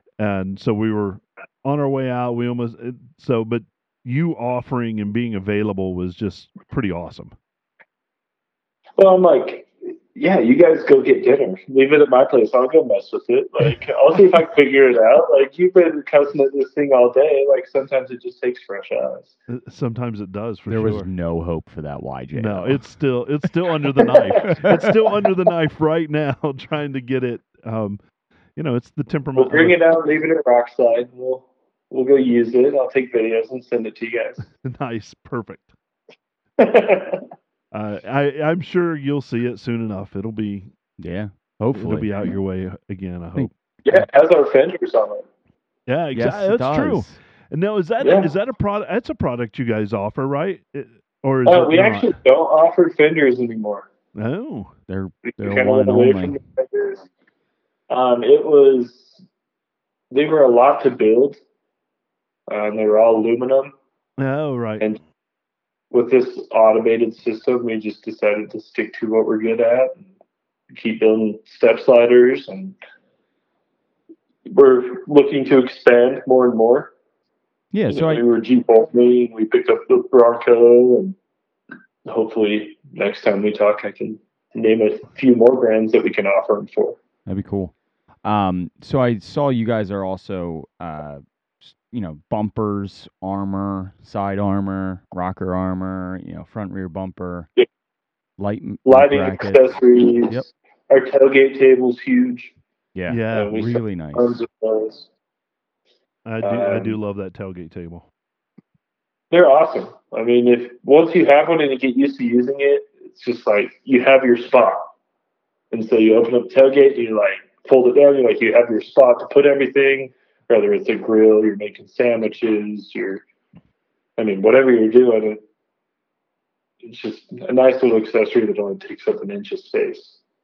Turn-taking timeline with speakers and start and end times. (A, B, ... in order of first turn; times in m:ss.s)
0:00.2-0:07.3 A
0:09.0-0:19.3 B
0:19.5-0:21.1 A
0:20.7-0:22.8 C
0:22.3-0:28.0 A
0:24.0-0:24.7 B
0:24.5-0:24.9 C
0:28.6-0:29.8 A
0:29.3-0:34.5 B
0:34.6-0:35.7 A
0:36.6-0:37.2 B
0:37.7-0:40.7 A
0:41.0-0:42.3 C
0:41.7-0:43.5 A
0:43.4-0:44.0 C
0:43.8-0:45.2 B
0:45.9-0:52.1 A
0:46.1-0:47.2 C
0:48.0-0:48.3 B
0:51.4-0:53.9 B
0:54.1-0:54.7 A
0:54.9-0:56.4 C
0:55.3-0:57.0 B
0:57.9-0:59.2 B
1:00.1-1:01.4 B
1:02.5-1:03.7 B
1:04.2-1:04.9 A
1:05.9-1:10.0 B
1:10.7-1:12.8 B
1:14.5-1:16.9 B
1:17.7-1:18.2 C
1:17.9-1:21.2 B
1:22.0-1:27.0 B
1:27.2-1:27.7 C
1:28.2-1:37.5 C
1:38.4-1:39.7 C
1:38.8-1:42.5 B
1:42.9-1:44.4 C
1:43.1-1:43.6 A
1:43.3-1:45.1 B
1:46.2-1:48.1 A
1:46.4-1:47.0 B
1:49.3-1:54.9 B
1:55.7-2:03.2 B
2:04.2-2:05.4 B
2:06.8-2:10.2 B